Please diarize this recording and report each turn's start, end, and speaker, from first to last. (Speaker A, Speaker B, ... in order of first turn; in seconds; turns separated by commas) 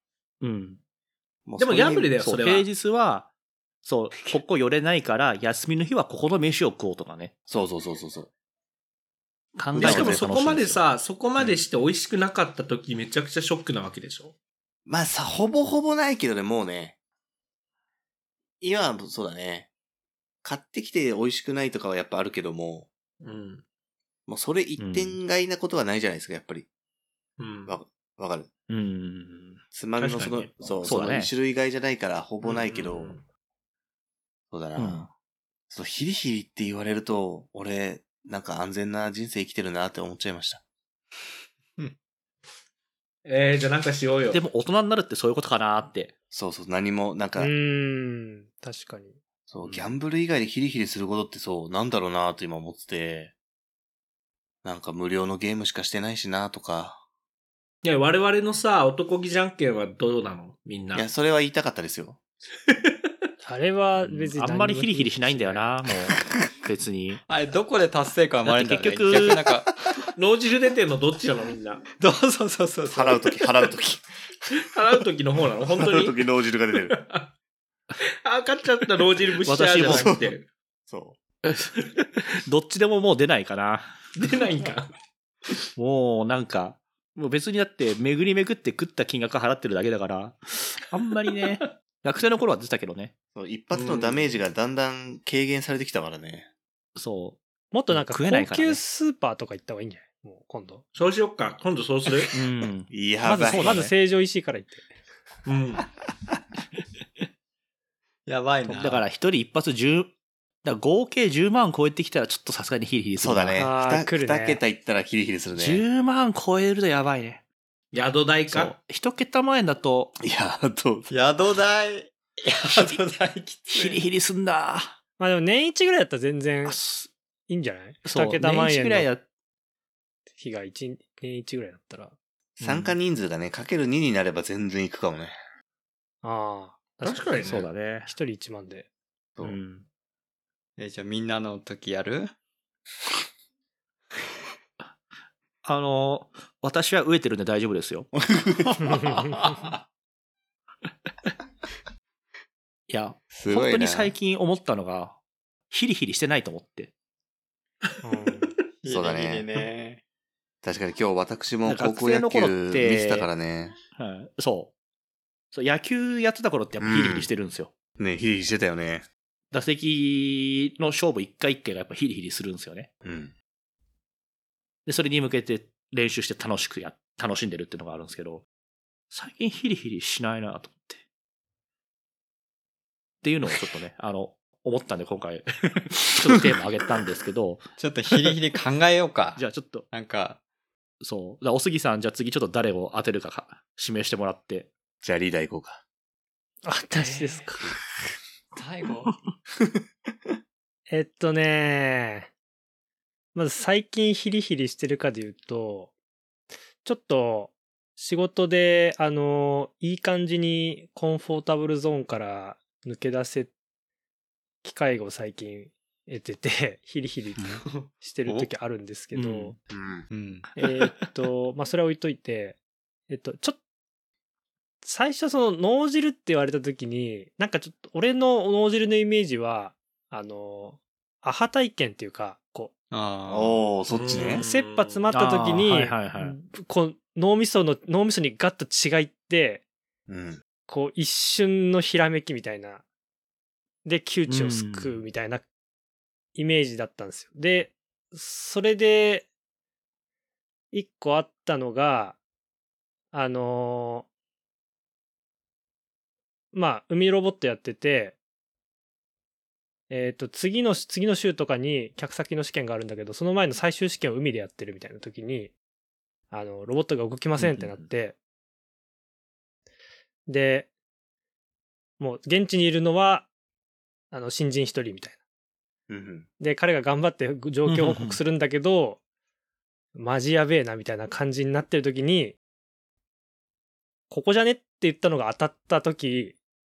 Speaker A: 0.4-0.8, Speaker B: 1.4-2.1, Speaker C: 1.6-2.7, Speaker A: 2.2-3.3, Speaker A: 3.8-7.3, Speaker B: 7.5-8.3, Speaker A: 9.6-10.8, Speaker B: 9.7-10.3, Speaker C: 9.8-14.3, Speaker B: 14.9-16.9, Speaker B: 18.6-19.7, Speaker B: 20.4-22.9, Speaker C: 23.2-23.6, Speaker B: 24.3-26.7, Speaker A: 24.8-25.2, Speaker C: 27.4-27.7, Speaker B: 27.6-28.5, Speaker A: 28.7-29.6, Speaker B: 29.7-33.2, Speaker C: 30.0-30.5, Speaker A: 30.8-31.3, Speaker C: 32.4-33.2, Speaker B: 34.5-35.1, Speaker A: 34.8-35.1, Speaker B: 35.7-40.6, Speaker C: 43.2-44.4, Speaker A: 44.3-46.1, Speaker B: 46.3-47.5, Speaker D: 47.4-49.2, Speaker B: 49.5-53.3, Speaker B: 54.6-57.0, Speaker C: 57.8-61.1, Speaker B: 60.9-62.2, Speaker C: 62.7-62.9, Speaker D: 63.4-65.7, Speaker A: 64.0-67.2, Speaker E: 67.3-69.7, Speaker A: 68.4-69.4, Speaker C: 70.1-71.8, Speaker E: 72.0-73.3, Speaker B: 72.9-74.0, Speaker C: 74.5-76.2, Speaker B: 75.7-77.0, Speaker C: 76.9-77.3, Speaker C: 78.2-80.5, Speaker A: 79.5-80.1, Speaker B: 79.8-80.3, Speaker B: 80.9-81.2, Speaker A: 81.5-81.8, Speaker A: 82.4-84.0, Speaker C: 84.2-84.9, Speaker A: 85.8-93.1, Speaker B: 93.3-96.5, Speaker C: 93.7-94.4, Speaker A: 97.0-98.8, Speaker D: 97.7-100.8, Speaker C: 100.9-102.3, Speaker A: 102.3-102.9, Speaker B: 102.9-103.8, Speaker D: 103.2-104.8, Speaker A: 103.4-103.9, Speaker C: 105.5-105.9, Speaker E: 108.2-109.0, Speaker A: 108.7-110.1, Speaker A: 110.6-113.6, Speaker B: 113.2-115.8, Speaker D: 113.6-114.6, Speaker A: 115.5-117.4, Speaker C: 117.9-118.7, Speaker A: 118.5-120.1, Speaker B: 120.2-121.1, Speaker E: 121.1-124.0, Speaker A: 122.7-123.0, Speaker A: 123.7-125.0, Speaker D: 125.2-126.8, Speaker A: 126.6-127.1, Speaker D: 127.5-129.1, Speaker A: 128.0-129.2, Speaker D: 130.3-132.1, Speaker B: 132.6-135.3, Speaker A: 132.6-132.9, Speaker D: 136.2-137.5, Speaker C: 137.0-137.7, Speaker A: 137.4-138.1, Speaker D: 138.0-138.9, Speaker A: 139.4-139.8, Speaker E: 140.8-142.3, Speaker A: 145.6-148.1, Speaker B: 148.3-149.1, Speaker D: 148.9-149.3, Speaker A: 152.9-155.2, Speaker B: 153.3-154.1, Speaker A: 155.7-156.9, Speaker D: 158.0-158.5, Speaker E: 158.8-160.0, Speaker B: 158.9-159.5, Speaker B: 160.6-163.7, Speaker A: 161.7-163.3, Speaker A: 163.9-164.7, Speaker A: 165.5-167.7, Speaker B: 166.8-167.3, Speaker B: 168.0-169.1, Speaker A: 169.5-172.9, Speaker B: 173.0-173.3, Speaker A: 174.8-178.4, Speaker A: 179.1-181.0, Speaker A: 183.2-187.6, Speaker E: 187.8-190.4, Speaker A: 189.3-189.9, Speaker A: 191.0-194.7, Speaker B: 195.0-195.8, Speaker D: 196.6-197.7, Speaker E: 197.0-197.4, Speaker E: 198.5-199.2, Speaker D: 200.9-202.3, Speaker D: 203.3-205.9, Speaker D: 206.8-213.5, Speaker D: 214.6-219.6, Speaker A: 219.1-219.5, Speaker B: 219.7-220.1, Speaker E: 220.1-220.4, Speaker D: 220.6-222.6, Speaker A: 220.6-220.9, Speaker D: 223.1-223.6, Speaker D: 224.8-232.7, Speaker E: 232.9-233.6, Speaker B: 233.3-234.4, Speaker C: 233.9-235.1, Speaker D: 234.2-239.6, Speaker A: 235.1-236.3, Speaker B: 240.1-240.4, Speaker D: 240.7-242.8, Speaker D: 243.8-245.4, Speaker A: 244.3-245.0, Speaker D: 246.3-249.3, Speaker D: 250.7-252.2, Speaker D: 253.1-254.1, Speaker D: 256.5-258.1, Speaker D: 259.9-265.5, Speaker D: 266.3-268.1, Speaker A: 267.4-267.9, Speaker D: 270.3-270.7, Speaker D: 272.0-273.3, Speaker D: 274.1-275.2, Speaker B: 275.9-276.3, Speaker D: 276.4-279.0, Speaker A: 277.6-278.2, Speaker D: 279.9-282.4, Speaker D: 284.1-286.4